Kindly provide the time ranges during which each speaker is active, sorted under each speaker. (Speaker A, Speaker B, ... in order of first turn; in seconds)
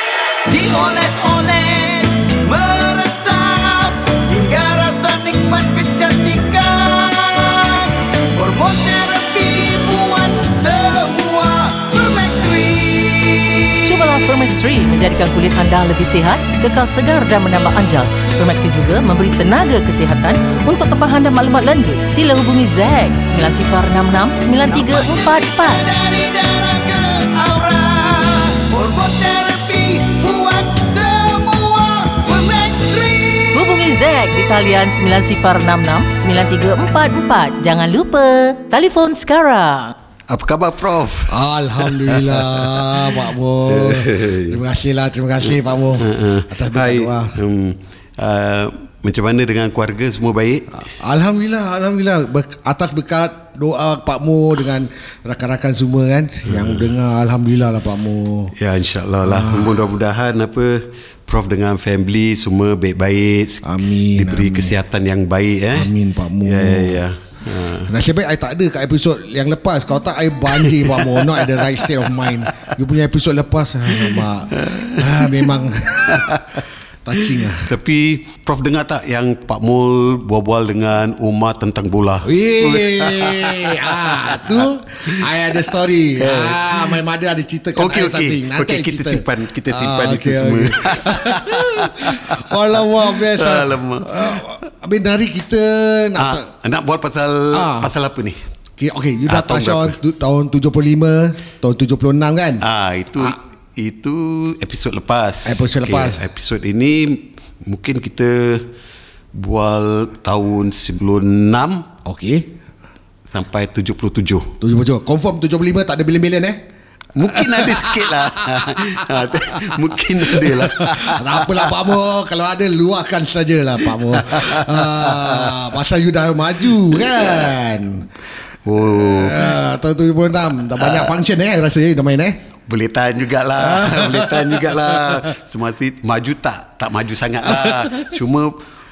Speaker A: 0.5-13.7, 24.7-33.6
Speaker B: 13.8-25.8, 33.5-40.0
Speaker C: 40.3-43.2, 43.7-44.6, 46.0-50.8, 56.5-56.9, 58.5-65.9, 66.4-67.9, 70.6-72.7, 73.9-76.6, 77.4-87.0, 87.8-94.5, 96.2-98.4, 99.3-100.0, 102.6-108.7, 109.3-111.9, 113.3-114.5, 117.2-121.9, 124.1-125.6, 126.9-127.5, 128.7-129.6, 130.8-131.1, 132.7-138.6
Speaker D: 41.3-47.4, 50.8-58.5, 59.2-59.8, 63.6-64.7, 65.7-67.0, 67.8-76.4, 77.0-77.7, 82.2-96.5, 97.5-97.9, 98.8-102.6, 105.5-106.2, 112.0-112.5, 114.6-116.6, 117.3-128.1, 128.8-132.4, 133.6-135.2, 137.5-138.1